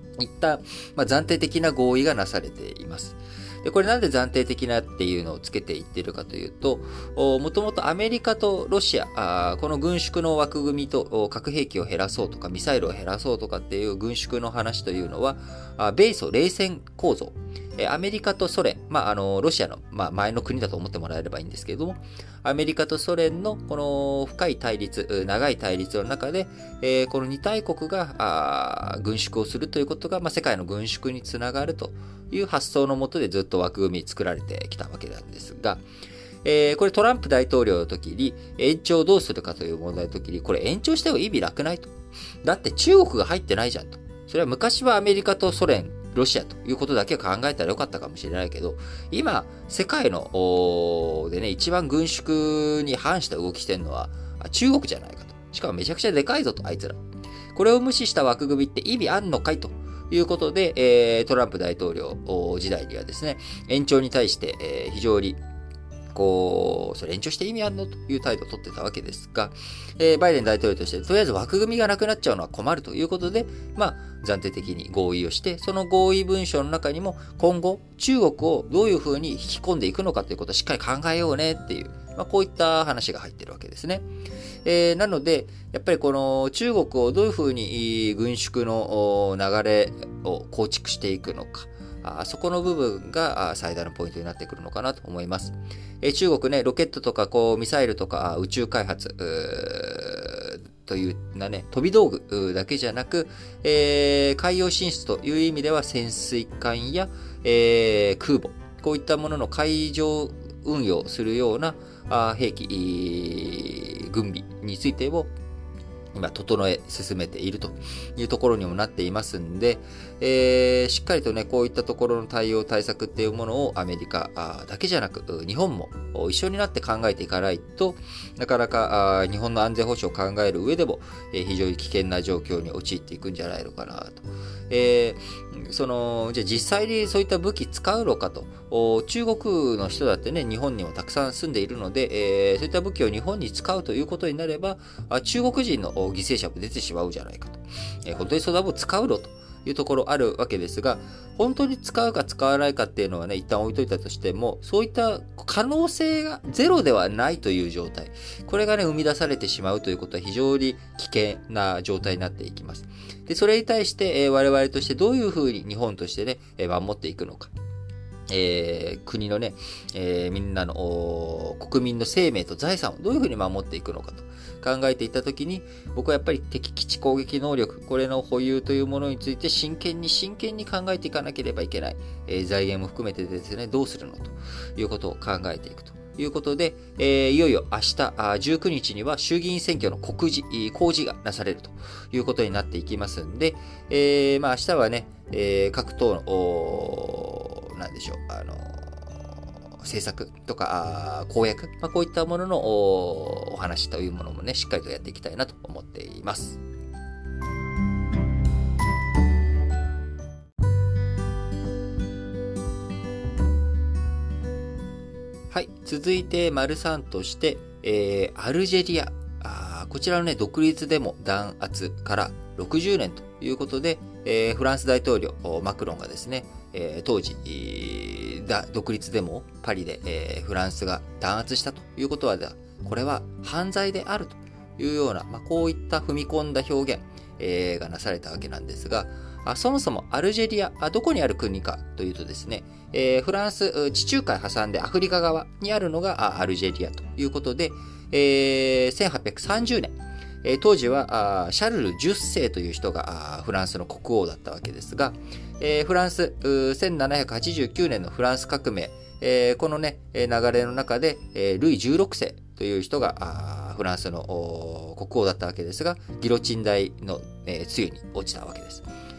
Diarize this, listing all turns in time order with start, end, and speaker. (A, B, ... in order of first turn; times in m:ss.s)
0:00.2-0:35.8 A
0:36.4-0:41.9 A
0:42.4-0:57.0 A
0:57.5-1:05.4 A
1:06.1-1:24.0 A
1:24.6-1:55.3 A
1:56.1-2:47.5 A
2:48.3-3:26.6 A
3:35.5-4:28.8 A